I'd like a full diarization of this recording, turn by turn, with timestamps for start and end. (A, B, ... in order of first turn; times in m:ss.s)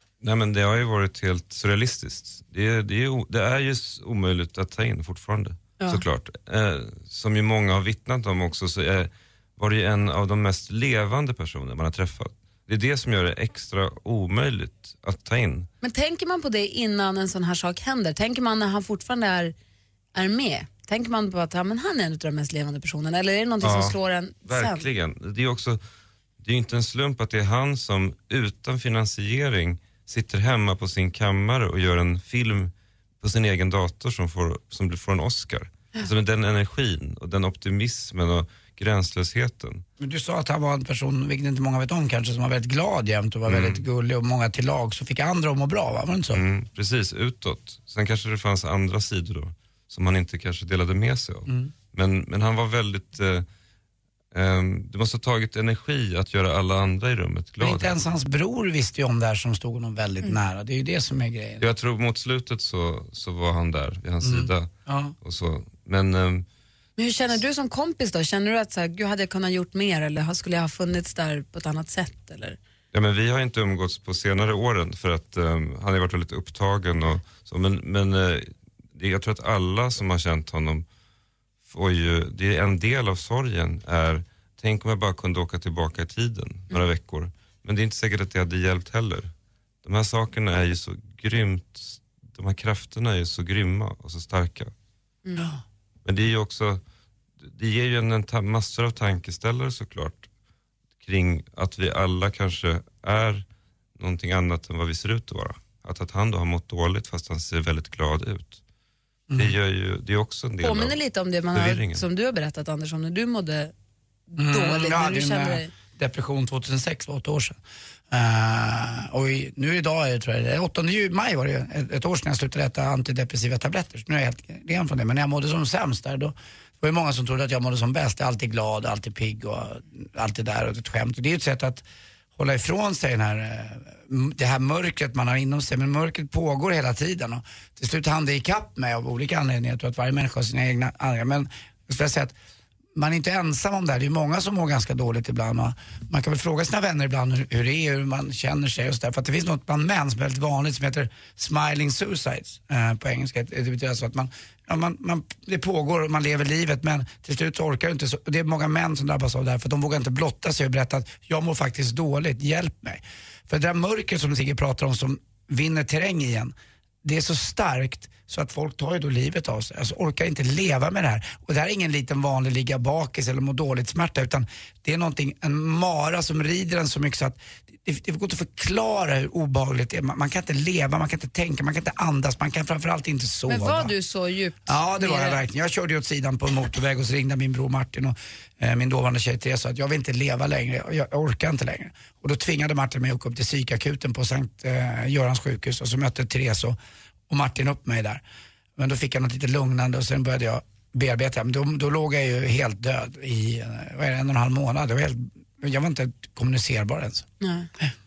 0:00.2-0:15.7 A
0:15.8-0:19.5 B
0:20.1-0:24.8 B
0:23.6-0:25.8 A
0:26.4-0:39.8 A
0:40.0-0:46.4 C
0:43.5-0:43.8 A
0:46.3-0:53.4 A
0:54.3-0:58.0 A
0:57.6-1:01.6 C
1:01.6-1:04.7 A
1:04.2-1:05.1 C
1:05.2-1:06.4 A
1:07.0-1:12.6 B
1:12.9-1:20.8 A
1:21.7-1:29.3 A
1:29.8-1:34.7 A
1:35.2-1:35.5 B
1:36.0-1:36.8 A
1:37.4-1:40.3 A
1:41.0-1:43.4 A
1:44.0-1:48.6 A
1:49.3-1:49.5 C
1:49.3-1:51.0 A
1:50.6-1:53.7 B
1:51.5-1:52.0 A
1:54.3-1:55.7 B
1:54.4-1:57.6 C
1:58.1-2:11.8 C
2:12.4-2:22.3 C
2:23.0-2:46.5 C
2:47.0-3:03.9 C
3:03.5-3:05.4 B
3:04.6-3:16.8 C
3:17.3-3:18.2 C
3:18.8-3:27.2 C
3:27.4-3:27.7 B